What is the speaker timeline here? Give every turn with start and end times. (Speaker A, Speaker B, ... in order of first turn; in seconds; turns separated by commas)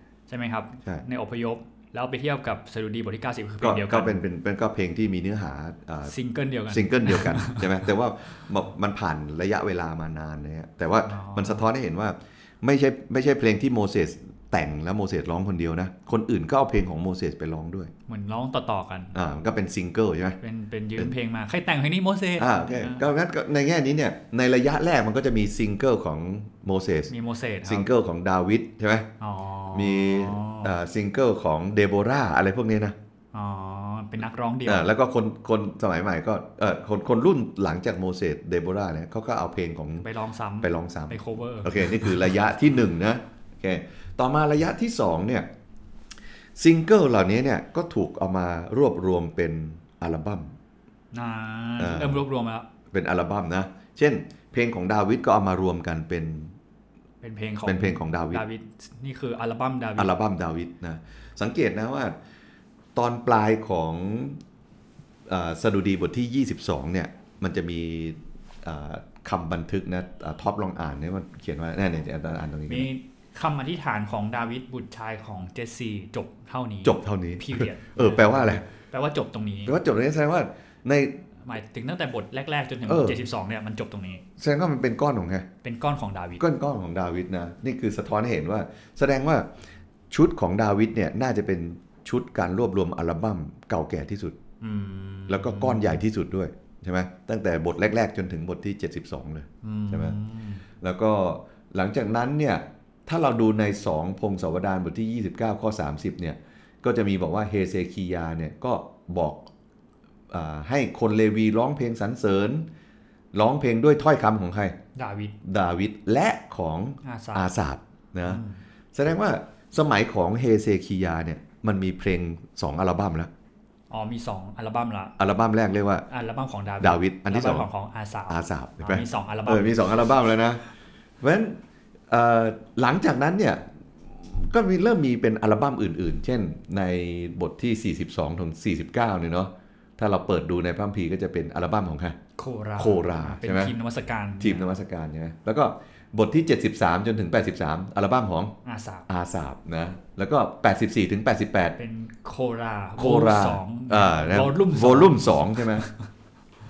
Speaker A: 0.3-4.2, Speaker B: 3.6-6.1, Speaker A: 6.0-7.8, Speaker B: 6.7-17.9, Speaker A: 11.1-11.6, Speaker A: 18.1-19.1, Speaker B: 19.1-20.4, Speaker A: 20.4-23.0, Speaker B: 22.4-27.1, Speaker A: 27.1-27.9, Speaker B: 27.6-29.1, Speaker A: 29.2-30.7, Speaker B: 29.7-33.0, Speaker A: 33.3-34.9, Speaker B: 34.7-40.0, Speaker A: 40.0-42.3, Speaker B: 40.6-45.5, Speaker B: 46.6-50.5, Speaker A: 51.1-52.7, Speaker B: 51.8-52.2, Speaker B: 52.9-56.5, Speaker A: 57.2-60.1, Speaker B: 57.6-58.4, Speaker B: 60.0-62.1, Speaker B: 62.9-64.4, Speaker B: 65.3-72.9, Speaker A: 72.7-79.7, Speaker B: 76.8-78.6, Speaker B: 79.7-81.2, Speaker A: 81.5-84.2, Speaker B: 82.8-83.2, Speaker B: 84.4-85.5, Speaker A: 85.6-86.4, Speaker B: 86.4-89.5, Speaker B: 90.1-94.4, Speaker A: 94.6-96.0, Speaker B: 95.3-100.2, Speaker A: 99.6-100.6, Speaker B: 100.8-109.5, Speaker B: 110.3-112.7, Speaker B: 113.3-114.7, Speaker A: 114.9-115.3, Speaker B: 115.4-118.4, Speaker A: 117.0-117.5, Speaker A: 118.2-118.6, Speaker B: 118.9-123.3, Speaker A: 123.9-125.2, Speaker B: 125.2-126.0, Speaker A: 126.1-130.2, Speaker B: 126.8-127.7, Speaker B: 128.3-130.6, Speaker B: 131.2-142.2, Speaker A: 142.4-144.7, Speaker B: 142.8-143.7, Speaker B: 144.4-148.5, Speaker A: 148.6-149.1, Speaker B: 149.1-151.8, Speaker A: 151.8-155.9, Speaker B: 153.0-155.9